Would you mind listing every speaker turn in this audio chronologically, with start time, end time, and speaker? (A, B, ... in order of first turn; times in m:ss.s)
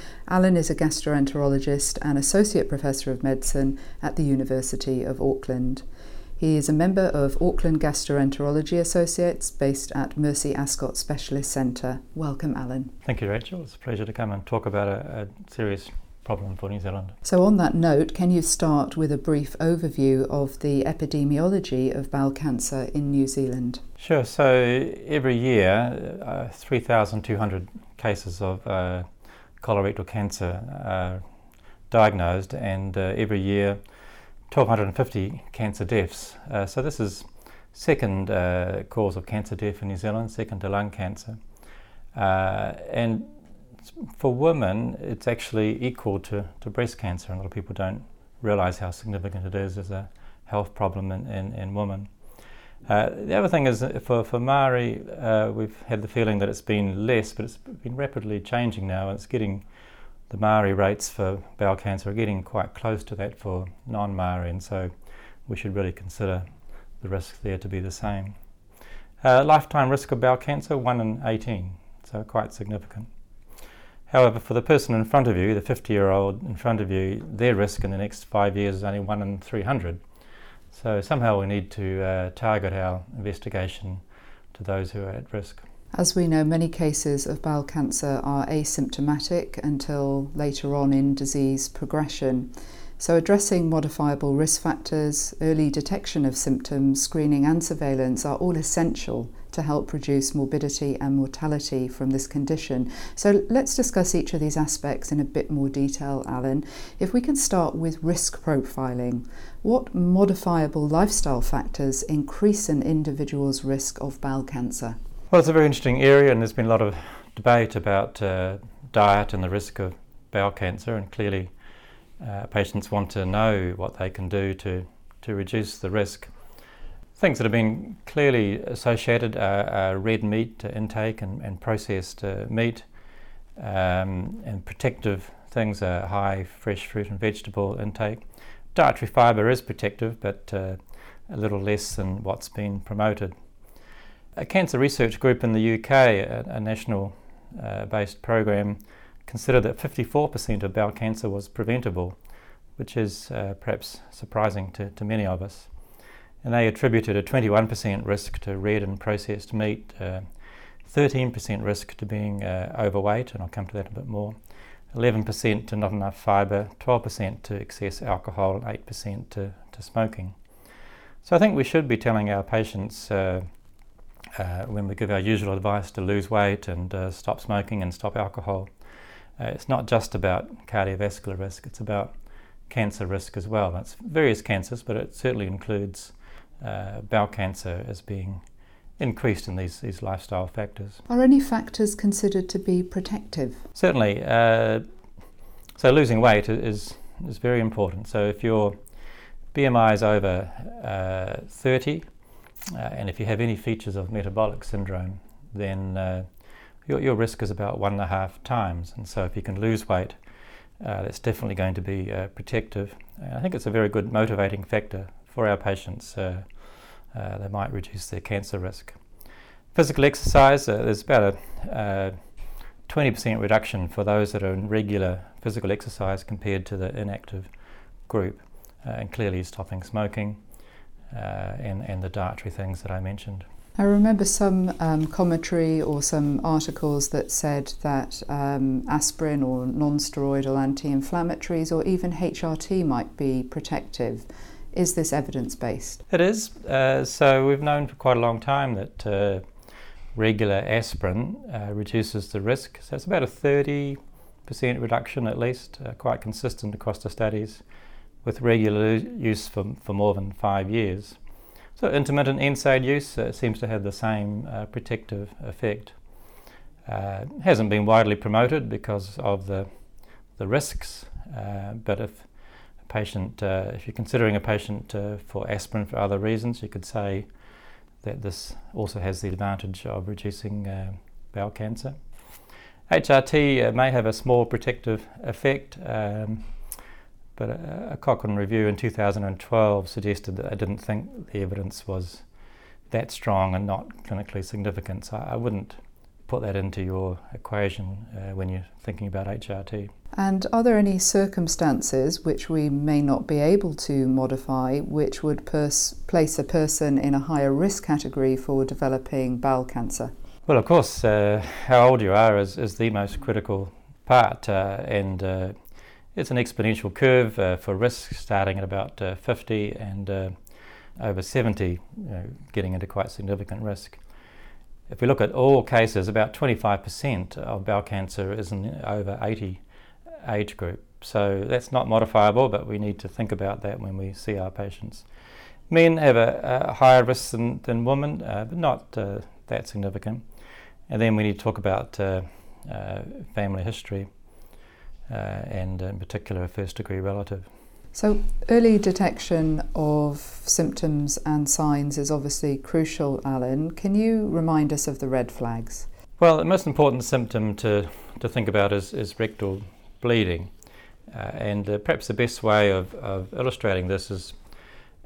0:00.3-0:05.8 A
0:06.4-0:13.0 A
0:13.0-0:17.2 B
0:17.2-0:23.8 A
0:24.0-0:29.1 B
0:29.6-0:31.2 B
0:31.9-0:33.8 B
0:34.5-0:41.4 B
0:42.1-0:43.3 B
0:43.9-0:52.1 B
0:52.9-0:59.6 B
1:00.3-1:04.9 B
1:05.5-1:06.4 B
1:07.0-1:08.4 B
1:09.2-1:13.1 B
1:14.1-1:20.0 B
1:20.7-1:24.0 B
1:24.5-1:25.6 B
1:25.9-1:55.0 A
1:55.3-2:01.5 B
2:02.2-2:06.3 B
2:07.2-2:12.9 B
2:13.6-2:18.2 B
2:18.8-2:23.3 B
2:24.4-2:32.2 B
2:32.8-2:35.7 B
2:36.4-2:40.2 B
2:40.9-2:44.4 B
2:44.9-2:50.4 B
2:51.2-2:53.4 B
2:54.4-2:58.7 B
2:59.4-3:02.1 B
3:02.7-3:08.4 B
3:09.0-3:11.0 B
3:11.1-3:13.6 A
3:13.8-3:14.8 B
3:15.8-3:18.8 B
3:19.5-3:22.1 B
3:22.7-3:26.3 B
3:26.9-3:30.2 B
3:30.8-3:36.5 B
3:37.1-3:39.0 B
3:39.7-3:42.2 B
3:42.9-3:47.5 B
3:48.1-3:50.4 B
3:51.1-3:53.5 B
3:53.8-4:06.0 A
4:06.1-4:09.4 B
4:10.2-4:17.6 B
4:18.2-4:21.2 B
4:21.8-4:26.0 B
4:26.9-4:29.7 B
4:30.4-4:32.3 B
4:32.9-4:37.3 B
4:38.0-4:42.0 B
4:42.9-4:46.5 B
4:47.4-4:52.2 B
4:52.9-4:59.9 B
5:00.1-5:10.1 A
5:10.5-5:15.6 B
5:16.2-5:20.4 B
5:21.0-5:24.0 B
5:24.9-5:29.6 B
5:30.2-5:35.1 B
5:35.7-5:40.2 B
5:40.9-5:44.1 B
5:45.1-5:47.5 B
5:47.9-5:55.9 A
5:56.2-6:00.5 B
6:01.1-6:04.4 B